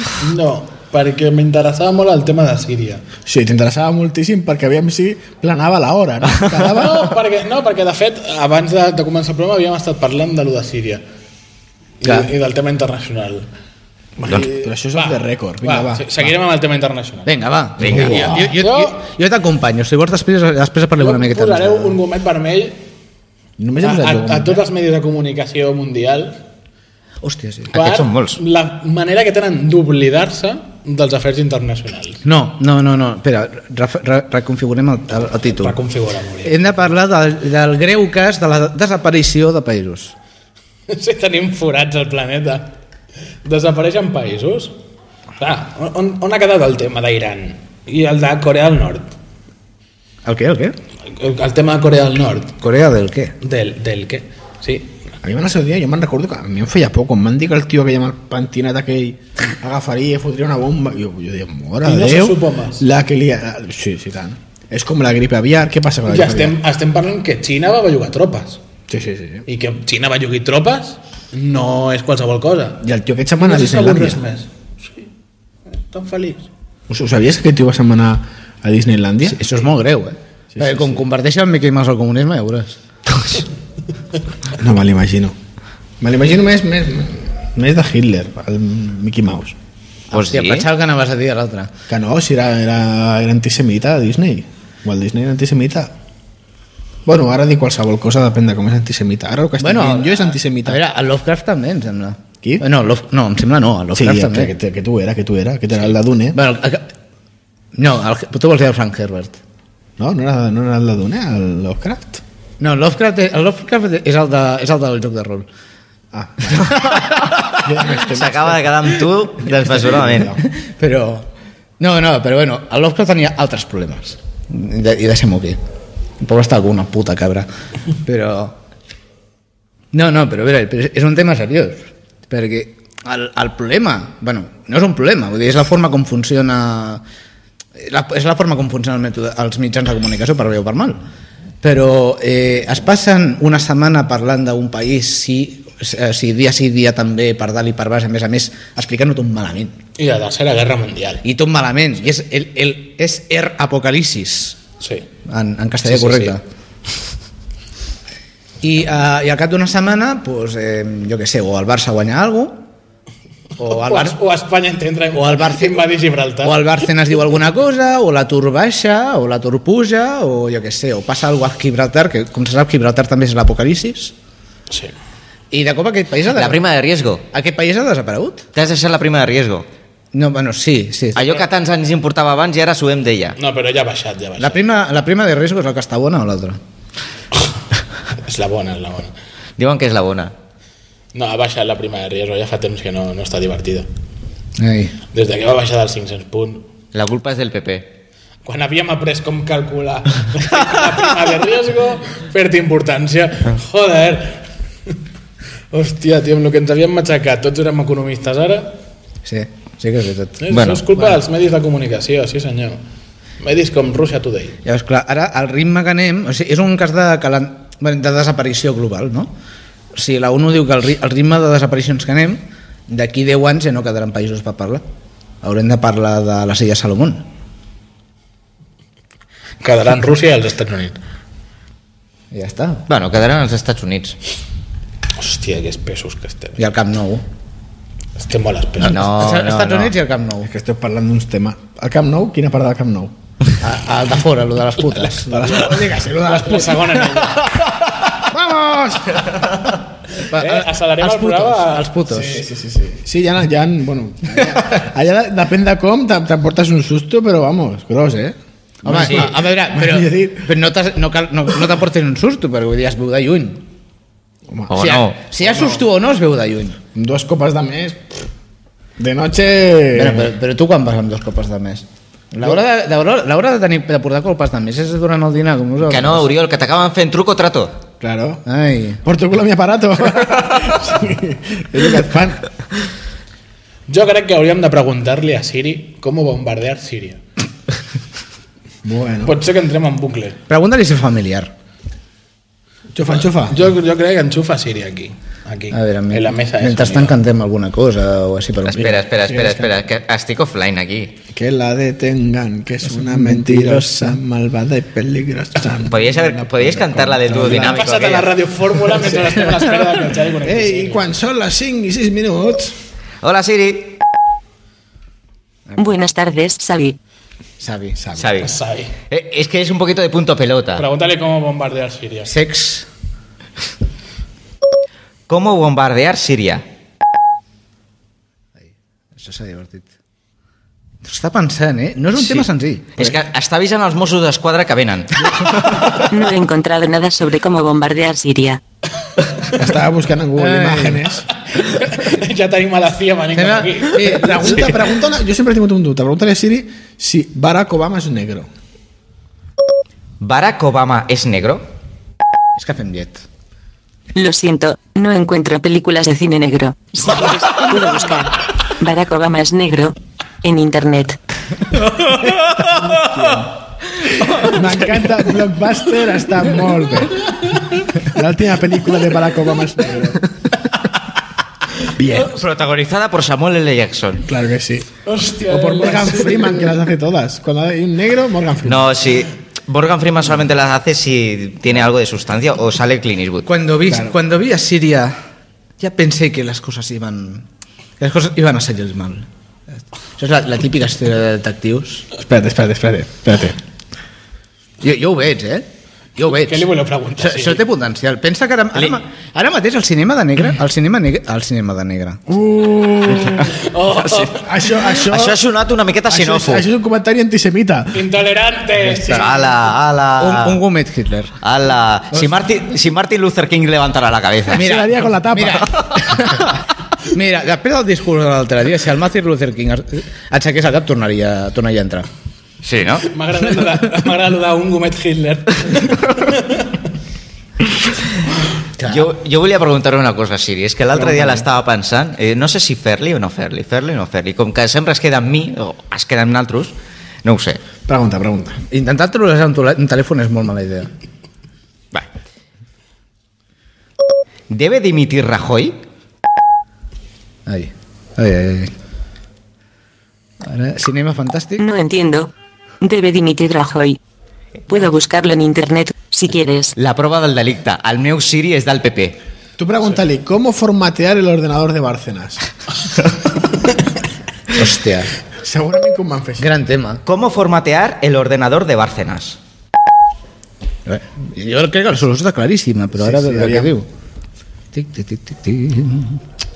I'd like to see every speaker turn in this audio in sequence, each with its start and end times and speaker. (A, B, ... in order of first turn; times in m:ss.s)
0:00.2-0:03.0 A
0:03.2-0:07.2 B
0:06.7-0:11.0 A
0:12.0-0:13.5 A
0:14.2-0:16.3 B
0:14.4-0:17.3 A
0:17.2-0:22.0 C
0:17.8-0:18.3 D
0:17.9-0:18.3 B
0:17.9-0:18.9 A
0:21.0-0:22.8 A
0:23.6-0:24.6 B
0:23.8-0:26.4 A
0:27.2-0:27.7 C
0:27.7-0:28.4 D
0:27.7-0:32.2 A
0:32.2-0:35.8 C
0:35.6-0:36.8 A
0:36.4-0:40.1 C
0:40.9-0:42.7 A
0:43.4-0:44.8 A
0:45.4-0:49.1 A
0:50.2-0:50.8 C
0:51.0-0:52.6 A
0:52.6-0:53.4 C
0:53.4-0:55.0 A
0:55.2-1:06.6 B
1:01.8-1:02.8 A
1:06.1-1:08.6 A
1:08.9-1:09.5 B
1:09.5-1:12.8 A
1:12.8-1:14.2 B
1:13.4-1:15.1 A
1:15.7-1:16.5 A
1:16.9-1:19.4 B
1:19.2-1:22.8 C
1:20.5-1:21.0 B
1:24.5-1:25.3 B
1:26.0-1:29.6 B
1:30.1-1:31.7 C
1:30.1-1:30.6 D
1:31.9-1:35.9 B
1:37.0-1:40.8 B
1:39.6-1:44.5 C
1:44.0-1:46.4 B
1:46.3-1:46.9 C
1:47.8-1:49.4 C
1:50.0-1:52.2 B
1:52.6-1:55.5 C
1:56.1-1:58.9 B
1:56.5-1:57.1 C
1:57.2-2:00.4 D
1:59.4-2:00.4 B
2:00.5-2:01.3 C
2:01.8-2:05.6 C
2:06.2-2:07.5 C
2:08.0-2:08.6 C
2:09.9-2:17.0 C
2:17.8-2:21.0 C
2:21.6-2:29.8 C
2:30.0-2:31.2 A
2:31.2-2:34.6 C
2:34.8-2:35.1 A
2:35.2-2:36.4 C
2:35.9-2:36.3 A
2:38.6-2:42.6 C
2:43.6-2:44.2 C
2:43.6-2:46.6 A
2:45.1-2:45.9 C
2:46.4-2:54.1 C
2:55.5-2:56.6 C
2:56.3-2:57.2 D
2:57.3-2:58.5 C
2:58.5-2:59.7 D
3:00.1-3:01.4 C
3:01.2-3:03.4 D
3:03.4-3:04.6 A
3:04.4-3:06.6 C
3:08.2-3:09.1 A
3:09.6-3:10.3 D
3:11.1-3:13.9 A
3:14.6-3:14.9 C
3:15.1-3:16.7 A
3:16.9-3:17.9 D
3:18.4-3:24.4 A
3:25.7-3:28.8 A
3:29.2-3:30.4 C
3:30.4-3:32.8 A
3:30.5-3:30.9 D
3:33.4-3:34.6 A
3:34.6-3:39.3 C
3:39.9-3:44.8 C
3:45.4-3:47.2 C
3:49.6-3:51.0 A
3:52.3-3:52.9 C
3:52.9-3:54.2 D
3:55.2-3:56.6 A
3:56.6-3:57.2 C
3:58.2-3:59.0 A
3:58.8-3:59.9 D
3:58.8-4:00.5 C
4:00.4-4:03.1 B
4:03.6-4:05.7 C
4:05.1-4:07.2 B
4:06.2-4:07.6 A
4:08.0-4:09.7 B
4:10.3-4:12.4 C
4:10.3-4:12.2 A
4:12.1-4:20.5 B
4:18.8-4:23.6 C
4:18.9-4:19.3 D
4:24.5-4:24.8 B
4:24.7-4:25.2 D
4:24.7-4:26.8 C
4:25.4-4:25.8 B
4:26.9-4:28.2 B
4:29.0-4:30.3 B
4:29.9-4:36.3 C
4:35.8-4:37.7 D
4:38.0-4:38.4 B
4:38.4-4:39.0 C
4:39.0-4:42.5 B
4:43.9-4:47.2 A
4:48.8-4:49.4 B
4:49.2-4:50.4 A
4:50.5-4:51.5 C
4:52.9-4:53.7 B
4:53.4-4:57.2 A
4:55.7-4:59.0 C
4:58.7-5:01.2 D
4:58.8-4:59.8 B
5:01.3-5:07.9 B
5:03.0-5:04.1 C
5:05.8-5:08.4 D
5:07.6-5:11.0 A
5:08.9-5:09.6 B
5:10.4-5:12.8 B
5:13.2-5:14.0 D
5:15.8-5:17.0 E
5:17.6-5:18.0 C
5:18.0-5:18.4 B
5:18.2-5:18.5 D
5:18.4-5:18.9 A
5:19.1-5:20.8 D
5:20.8-5:22.3 A
5:22.2-5:22.9 C
5:25.3-5:26.6 D
5:29.2-5:29.9 C
5:31.0-5:32.9 C
5:32.2-5:36.0 D
5:35.2-5:35.7 B
5:36.1-5:38.6 E
5:39.5-5:41.3 B
5:40.4-5:41.0 C
5:41.5-5:44.6 A
5:43.3-5:44.7 C
5:44.0-5:48.5 B
5:50.2-5:51.6 D
5:52.6-5:53.2 C
5:54.1-6:01.2 E
6:02.7-6:03.5 B
6:04.3-6:07.3 B
6:08.0-6:10.3 B
6:12.0-6:12.4 B
6:12.1-6:14.2 D
6:14.2-6:19.0 B
6:15.0-6:16.8 A
6:18.6-6:23.5 D
6:23.4-6:25.2 C
6:23.9-6:24.1 B
6:25.8-6:27.4 C
6:28.0-6:29.3 C
6:30.2-6:32.0 C
6:32.2-6:33.6 B
6:34.8-6:36.7 C
6:36.2-6:37.6 A
6:37.2-6:42.2 C
6:42.3-6:43.5 B
6:43.4-6:44.5 A
6:44.3-6:45.4 B
6:45.0-6:46.6 D
6:46.1-6:48.1 B
6:47.9-6:49.4 A
6:48.9-6:49.2 B
6:49.0-6:50.6 D
6:50.2-6:51.4 C
6:51.4-6:54.6 D
6:54.5-6:56.0 B
6:54.5-7:02.1 C
7:02.6-7:03.1 D
7:03.0-7:06.7 A
7:08.8-7:09.1 C
7:08.8-7:17.6 D
7:11.0-7:11.4 B
7:17.9-7:18.6 B
7:18.7-7:20.9 C
7:24.5-7:25.8 D
7:27.4-7:28.7 C
7:30.4-7:31.6 C
7:31.6-7:34.0 E
7:34.7-7:36.7 E
7:36.8-7:39.2 D
7:39.6-7:42.4 B
7:44.5-7:45.1 C
7:45.4-7:46.5 B
7:46.4-7:47.0 C
7:47.0-7:49.4 D
7:50.8-7:53.9 C
7:53.0-7:53.7 B
7:54.7-7:56.2 C